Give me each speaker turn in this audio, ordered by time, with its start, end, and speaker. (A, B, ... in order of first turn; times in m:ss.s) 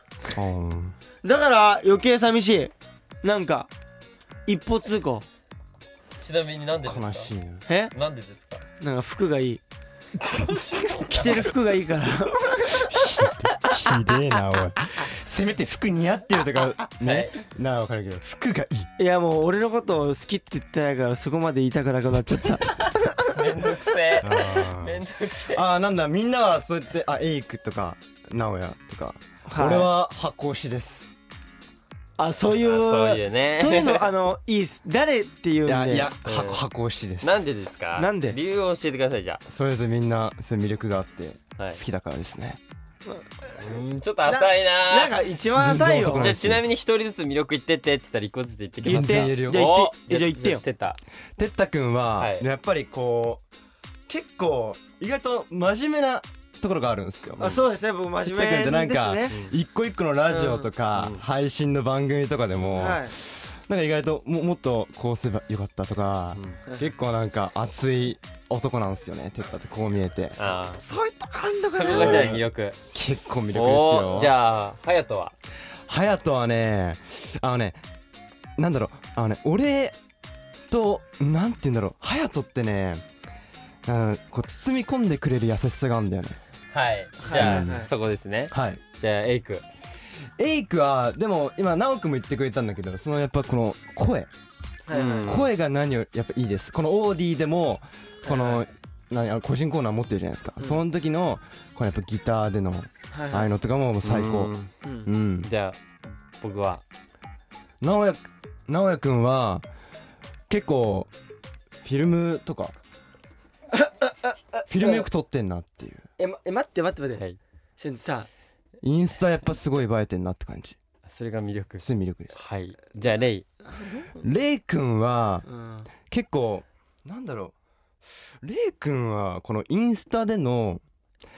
0:00.3-0:01.0 A
0:01.2-0:02.7 B
0:03.2-0:03.7 B
0:04.5-0:05.2 B
0:06.2-0:07.3 C
0:06.8-0:07.6 A
0:07.7-0:07.9 B
0:07.9-0:08.6 C
0:08.8-0:09.6 B
0:10.3-0:11.5 C
0:11.0-0:14.0 B
0:12.6-0:18.9 A
0:17.0-0:17.4 C
0:19.0-0:23.1 B
0:22.8-0:25.6 C
0:24.2-0:31.1 A
0:29.5-0:29.9 B
0:32.2-0:36.1 B
0:32.5-0:34.0 C
0:35.6-0:37.4 A
0:36.2-0:36.6 C
0:37.2-0:39.4 C
0:38.0-0:38.4 B
0:39.5-0:42.6 A
0:43.0-0:46.3 B
0:43.6-0:45.2 C
0:45.5-0:46.6 A
0:46.1-0:51.0 C
0:48.8-0:49.6 A
0:48.8-0:50.6 B
0:51.4-0:53.4 A
0:52.2-0:52.5 C
0:54.1-0:57.6 A
0:57.4-0:59.4 B
0:58.2-1:10.5 A
1:00.3-1:00.7 B
1:00.9-1:01.2 C
1:02.7-1:03.1 B
1:10.4-1:10.8 C
1:10.5-1:12.4 B
1:11.7-1:12.8 C
1:11.9-1:14.3 A
1:13.5-1:15.4 C
1:15.9-1:17.8 A
1:18.6-1:20.0 A
1:20.7-1:23.0 A
1:23.9-1:26.4 A
1:26.7-1:29.6 C
1:27.2-1:27.9 B
1:27.4-1:27.9 A
1:28.5-1:28.8 A
1:30.4-1:34.3 A
1:34.9-1:35.4 B
1:34.9-1:35.5 C
1:35.2-1:44.5 A
1:38.2-1:38.6 B
1:43.1-1:43.5 B
1:44.0-1:44.7 C
1:44.8-1:45.1 B
1:45.0-1:45.5 A
1:45.4-1:45.8 C
1:46.4-1:46.8 C
1:47.8-1:49.6 A
1:50.5-1:51.1 A
1:51.8-1:52.8 A
1:53.7-1:55.1 B
1:54.7-1:56.0 A
1:56.2-1:57.2 B
1:57.8-1:58.3 B
1:58.8-2:00.8 A
2:01.1-2:03.4 C
2:01.8-2:02.4 A
2:03.8-2:04.1 B
2:04.2-2:05.5 A
2:05.5-2:05.9 B
2:06.0-2:07.5 A
2:08.4-2:10.8 A